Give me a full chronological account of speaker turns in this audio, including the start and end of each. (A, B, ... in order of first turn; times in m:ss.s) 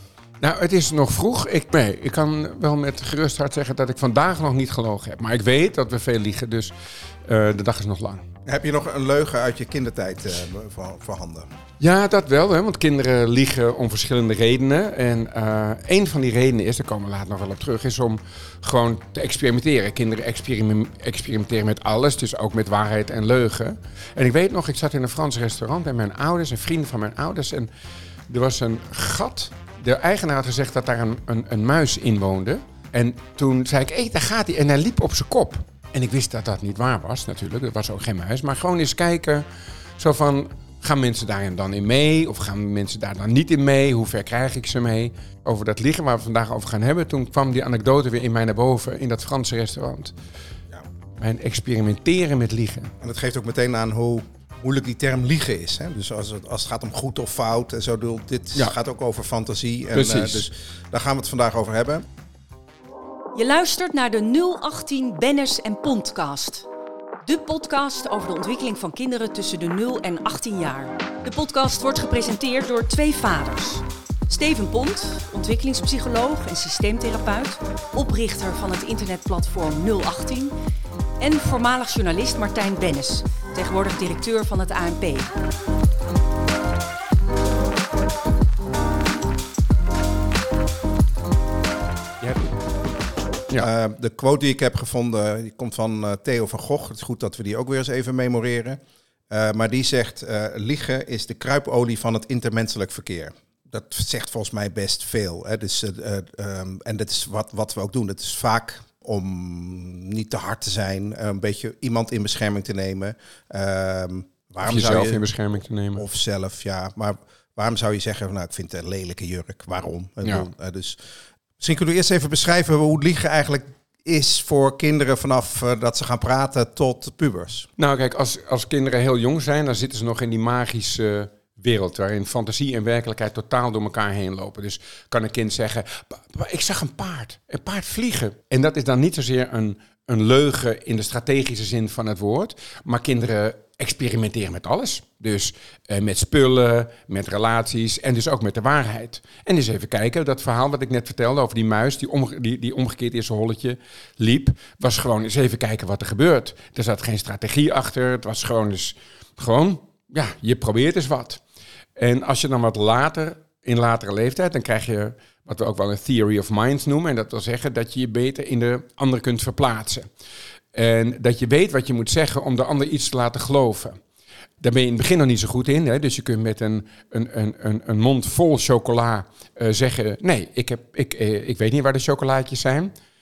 0:00.4-0:06.7 A
0:07.3-0:08.3 A
0:08.5-0:11.5 B
0:11.8-0:27.7 A
0:28.3-0:39.5 A
0:40.0-0:50.1 A
0:51.2-0:52.9 A
0:53.0-1:02.0 B
0:59.9-1:00.5 A
1:03.3-1:06.7 C
1:07.2-1:20.6 C
1:21.2-1:25.3 C
1:32.2-1:32.5 A
1:33.6-1:38.8 B
1:39.3-1:55.2 B
1:54.6-1:56.0 A
1:56.0-2:01.0 B
2:00.2-2:00.5 A
2:01.6-2:07.7 B
2:07.8-2:41.4 A
2:42.0-2:50.1 A
2:50.7-2:54.0 A
2:54.6-3:02.9 A